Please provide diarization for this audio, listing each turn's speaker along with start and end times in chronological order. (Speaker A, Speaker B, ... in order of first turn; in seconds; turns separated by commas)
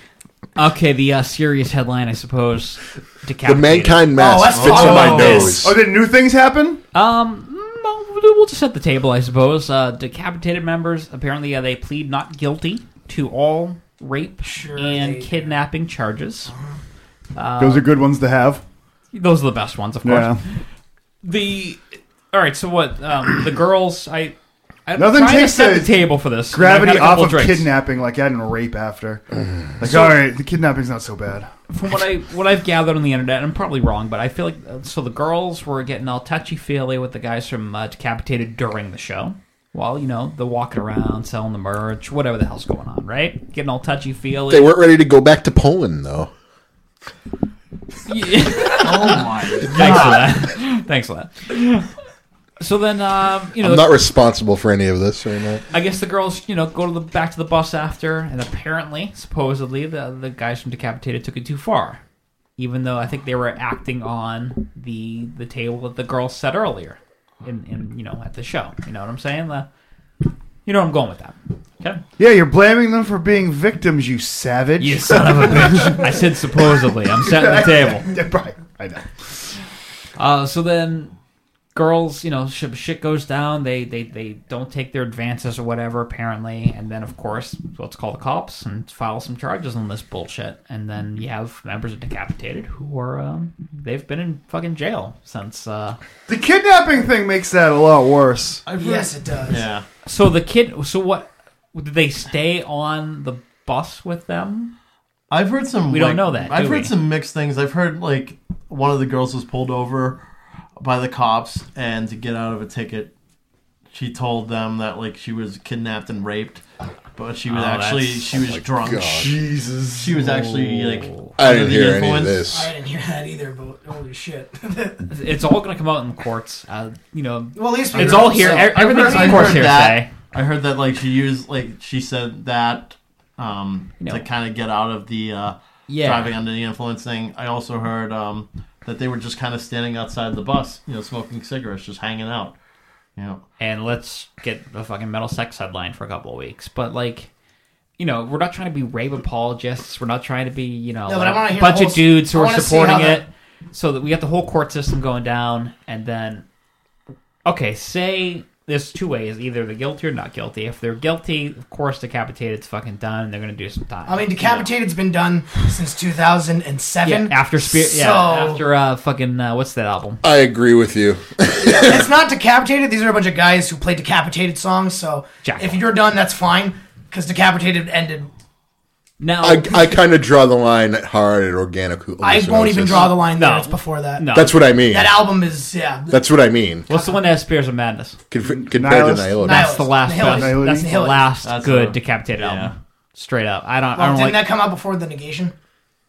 Speaker A: 0.6-4.0, Speaker B: 3.4-5.8, Speaker C: 4.2-5.6, Speaker D: 4.5-5.5, Speaker A: 4.9-5.4, Speaker E: 5.5-6.8, Speaker A: 6.9-16.5, Speaker C: 14.4-15.5, Speaker C: 16.5-16.8, Speaker A: 17.4-17.9, Speaker E: 17.6-18.6, Speaker A: 19.1-20.4, Speaker E: 20.0-20.4, Speaker A: 21.2-24.4, Speaker A: 24.9-27.7, Speaker E: 25.0-29.3, Speaker E: 29.8-31.5, Speaker A: 29.8-30.3, Speaker A: 31.7-44.8, Speaker B: 44.5-46.3, Speaker A: 48.1-51.9, Speaker D: 48.8-50.2, Speaker E: 49.6-50.0, Speaker A: 52.6-53.9, Speaker B: 53.6-55.6, Speaker A: 55.7-62.0, Speaker A: 62.6-69.7, Speaker A: 70.7-72.0, Speaker E: 72.2-76.2, Speaker A: 74.8-78.1, Speaker E: 77.2-79.3, Speaker A: 80.2-81.1, Speaker A: 81.7-96.0, Speaker E: 96.3-98.7, Speaker D: 98.7-99.8, Speaker C: 98.7-99.7, Speaker A: 100.1-104.7, Speaker D: 105.3-110.2, Speaker A: 105.9-106.9, Speaker D: 110.8-113.1, Speaker D: 113.9-116.6, Speaker D: 117.2-119.3, Speaker A: 117.5-118.3, Speaker B: 118.3-119.4, Speaker E: 119.4-120.0, Speaker D: 120.0-122.4, Speaker A: 120.6-121.3, Speaker B: 121.4-122.7, Speaker C: 122.5-125.0, Speaker A: 125.1-130.1, Speaker C: 127.5-129.7, Speaker D: 127.9-142.6, Speaker A: 134.0-134.3, Speaker A: 135.9-136.3, Speaker D: 143.2-143.4, Speaker A: 143.6-147.3, Speaker A: 148.0-156.4, Speaker C: 151.1-153.2, Speaker A: 157.4-164.7, Speaker C: 164.1-168.6, Speaker A: 167.0-170.2, Speaker B: 170.2-172.1, Speaker C: 171.6-178.3, Speaker A: 175.4-175.8, Speaker A: 179.2-179.9, Speaker B: 179.4-183.2, Speaker C: 182.2-184.3, Speaker A: 183.3-184.5, Speaker B: 184.3-185.3, Speaker C: 184.9-186.2, Speaker B: 186.1-186.9, Speaker C: 186.9-187.2, Speaker A: 186.9-188.2, Speaker B: 188.3-189.8, Speaker E: 188.4-189.4, Speaker C: 189.4-191.3, Speaker A: 189.4-194.5, Speaker E: 190.2-190.9, Speaker D: 191.4-192.7, Speaker C: 193.9-195.5